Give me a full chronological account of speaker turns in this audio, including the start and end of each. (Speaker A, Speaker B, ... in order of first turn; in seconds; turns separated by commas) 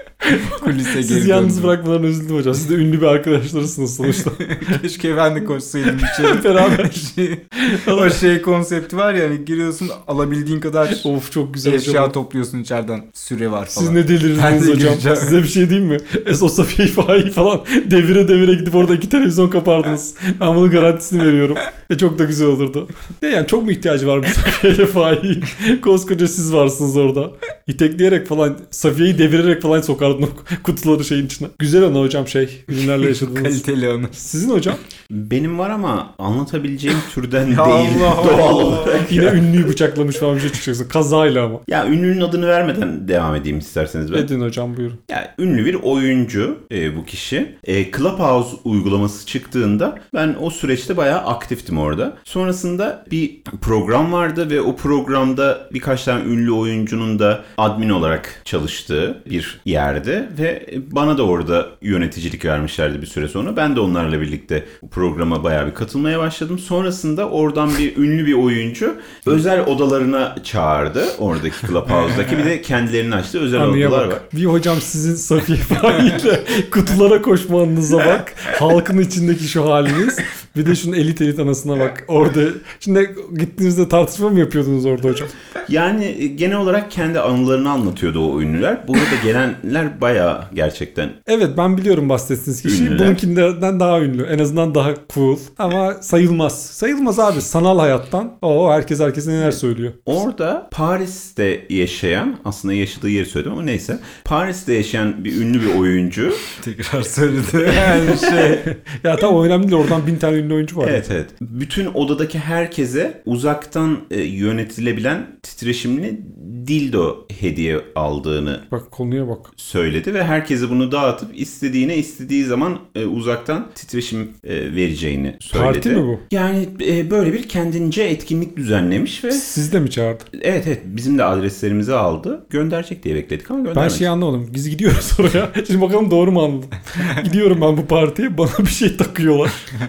Speaker A: 0.2-4.8, Speaker B: 0.3-1.8, Speaker B: 4.2-11.1, Speaker A: 5.9-7.0, Speaker A: 7.6-8.2, Speaker A: 10.9-12.1, Speaker B: 11.6-15.4, Speaker A: 13.7-34.8, Speaker B: 32.8-34.1, Speaker C: 35.1-39.4, Speaker B: 37.5-39.0, Speaker A: 38.6-41.6, Speaker C: 41.7-44.3, Speaker A: 44.1-45.0, Speaker C: 45.1-74.2, Speaker A: 73.5-85.3, Speaker C: 85.7-91.2, Speaker A: 91.2-100.1, Speaker C: 92.6-93.2, Speaker C: 100.0-106.4, Speaker B: 106.5-108.7, Speaker A: 108.0-111.0, Speaker C: 110.8-118.6, Speaker A: 118.7-119.5, Speaker C: 119.5-129.5, Speaker A: 125.5-126.2, Speaker A: 129.3-130.2, Speaker C: 130.3-134.1, Speaker A: 133.7-139.7